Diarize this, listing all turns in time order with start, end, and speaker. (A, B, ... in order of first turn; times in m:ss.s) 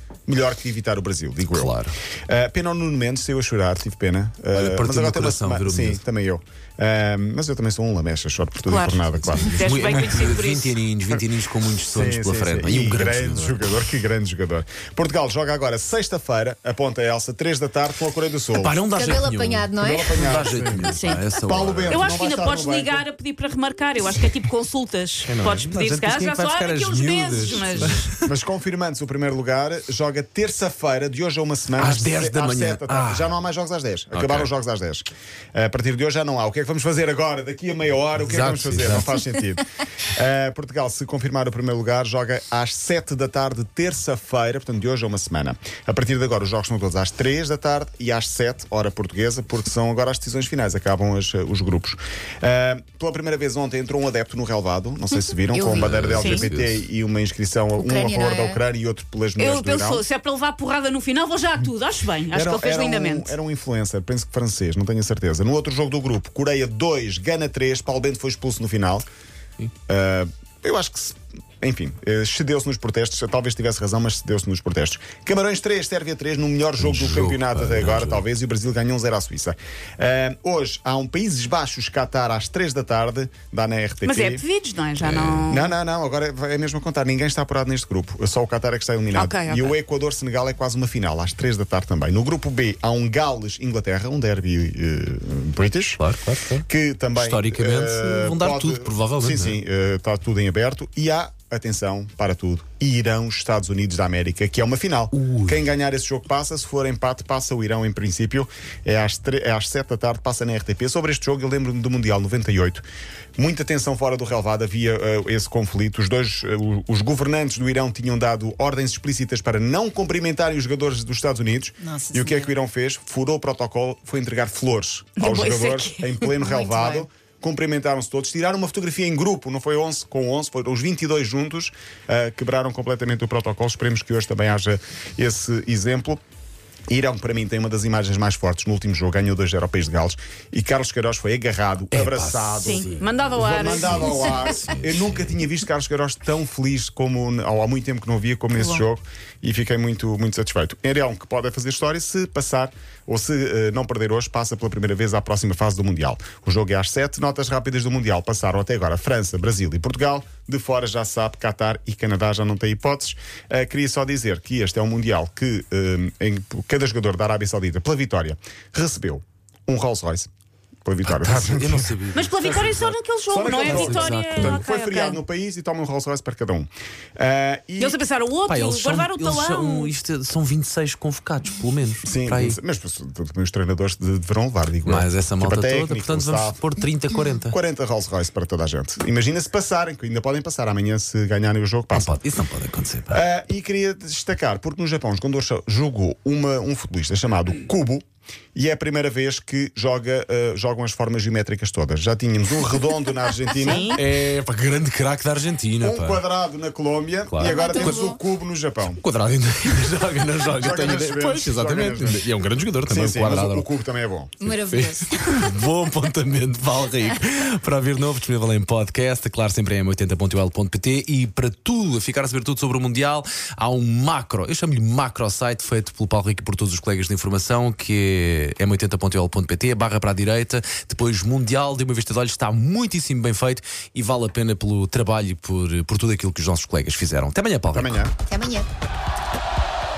0:00.3-0:10.0 A
0:01.5-0:01.9 B
0:04.5-0:06.0 B
0:08.7-0:10.8 C
0:09.3-0:13.8 B
0:11.9-0:18.8 A
0:18.5-0:22.1 B
0:18.9-0:20.8 D
0:19.8-0:23.0 A
0:20.8-0:21.2 C
0:21.9-0:28.0 C
0:25.2-0:28.3 B
0:28.2-1:00.0 A
0:31.8-0:33.4 B
0:34.1-0:34.5 B
0:38.2-0:39.1 B
0:55.5-0:55.9 D
0:55.7-0:56.8 B
0:56.1-0:56.4 C
0:57.8-0:58.6 D
0:59.4-1:03.3 C
1:02.3-1:09.1 A
1:09.9-1:24.4 A
1:16.8-1:18.2 B
1:24.0-1:25.7 C
1:25.0-1:36.0 A
1:25.1-1:25.5 B
1:29.1-1:29.8 C
1:36.0-1:39.6 B
1:36.7-1:52.8 A
1:45.1-1:45.6 B
1:53.4-2:16.2 A
2:01.9-2:02.5 D
2:05.2-2:06.3 C
2:06.4-2:07.0 D
2:16.9-2:50.3 A
2:21.9-2:25.4 B
2:22.6-2:24.1 C
2:50.8-2:52.0 A
2:51.0-2:53.0 B
2:52.1-2:55.2 C
2:53.3-2:58.0 A
2:53.5-2:54.6 B
2:57.8-2:59.9 C
2:58.5-3:02.6 B
3:02.0-3:06.6 A
3:04.8-3:07.5 B
3:07.5-3:12.2 A
3:11.9-3:13.2 B
3:13.1-3:23.9 A
3:23.5-3:24.0 C
3:23.9-3:26.2 B
3:25.8-3:29.0 A
3:27.3-3:28.1 B
3:27.4-3:28.2 D
3:28.8-3:33.7 B
3:30.5-3:32.3 A
3:32.8-3:34.4 A
3:34.4-3:35.2 D
3:34.4-3:58.1 B
3:57.7-3:58.1 A
3:58.3-3:58.7 D